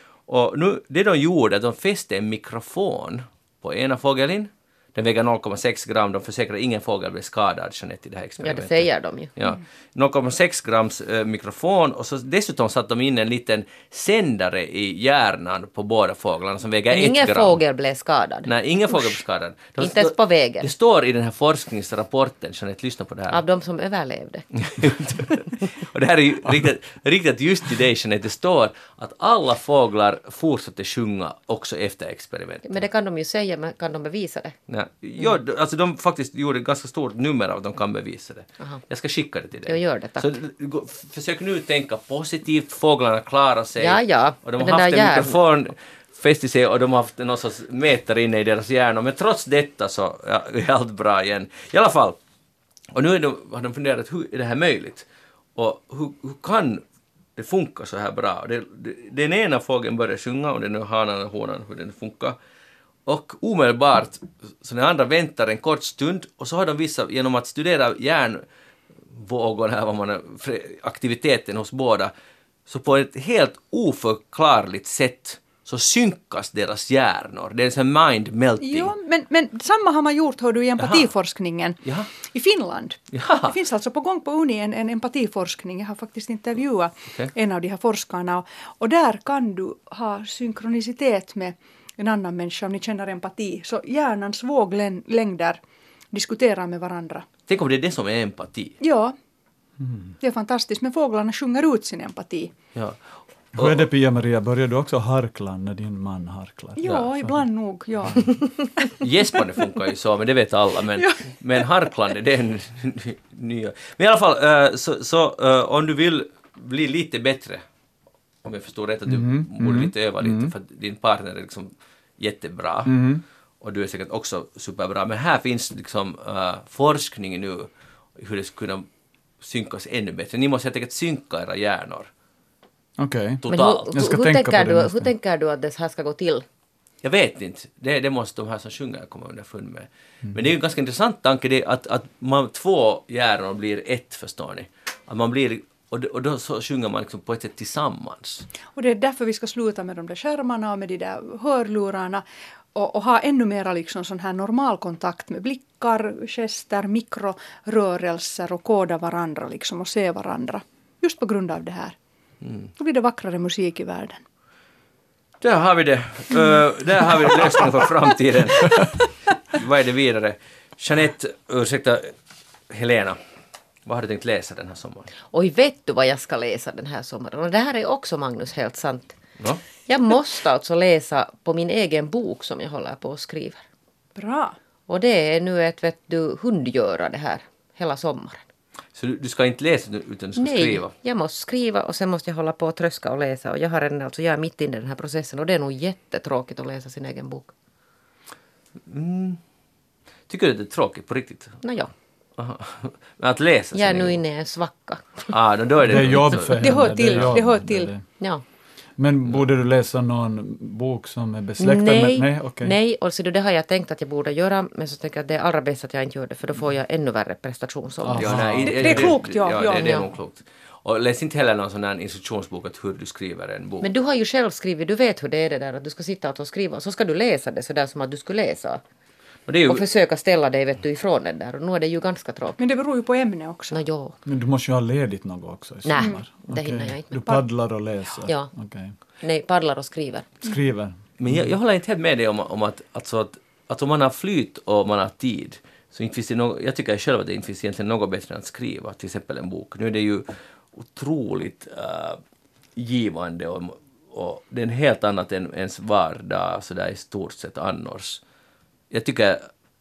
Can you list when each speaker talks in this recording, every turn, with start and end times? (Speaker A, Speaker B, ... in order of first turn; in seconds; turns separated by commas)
Speaker A: 0.3-17.6, Speaker B: 8.4-9.3, Speaker B: 16.9-19.2, Speaker A: 18.4-23.4, Speaker B: 19.8-20.7, Speaker B: 23.3-24.5, Speaker A: 24.6-32.8, Speaker B: 32.6-34.5, Speaker A: 34.7-52.2, Speaker B: 39.6-40.3, Speaker B: 43.8-45.4, Speaker A: 52.9-56.8, Speaker A: 57.4-62.4, Speaker A: 63.0-68.4, Speaker A: 69.1-72.1, Speaker A: 72.7-78.9, Speaker C: 78.6-95.6, Speaker A: 80.8-81.1, Speaker A: 83.1-83.5, Speaker C: 96.1-97.3, Speaker A: 97.5-98.8, Speaker C: 98.8-99.1, Speaker D: 99.8-100.1, Speaker C: 100.2-102.5, Speaker A: 103.5-103.8, Speaker D: 103.5-107.4, Speaker C: 106.8-108.9, Speaker A: 109.0-117.6, Speaker A: 118.4-122.9, Speaker D: 119.1-120.5, Speaker D: 122.8-123.2, Speaker A: 123.6-128.8, Speaker A: 129.4-132.1, Speaker D: 133.0-135.1, Speaker A: 133.4-134.0, Speaker B: 133.5-136.4, Speaker A: 137.0-148.5, Speaker C: 148.7-161.9, Speaker A: 162.4-162.7, Speaker C: 162.8-164.2, Speaker A: 165.4-172.1, Speaker A: 172.7-173.2, Speaker A: 173.8-175.1, Speaker B: 175.3-179.2, Speaker B: 179.8-183.6, Speaker C: 184.2-184.6, Speaker B: 184.9-188.4, Speaker A: 188.9-190.9, Speaker B: 190.4-197.5, Speaker A: 198.8-199.4, Speaker A: 200.3-201.6, Speaker B: 201.6-201.9, Speaker A: 202.4-204.2, Speaker B: 203.7-205.3, Speaker A: 205.3-207.3, Speaker D: 205.8-208.0, Speaker C: 206.5-207.9, Speaker D: 209.0-212.7, Speaker B: 211.6-218.4, Speaker D: 218.0-219.1, Speaker A: 218.2-223.9, Speaker C: 218.6-220.0, Speaker B: 219.7-220.0, Speaker B: 223.8-228.8, Speaker A: 229.5-229.8, Speaker B: 229.7-232.6, Speaker C: 232.6-233.8, Speaker B: 233.7-234.2, Speaker D: 234.2-238.9, Speaker B: 235.8-237.4, Speaker B: 239.2-240.3, Speaker D: 240.4-241.4, Speaker A: 241.2-252.2, Speaker A: 252.8-258.2, Speaker A: 258.9-259.5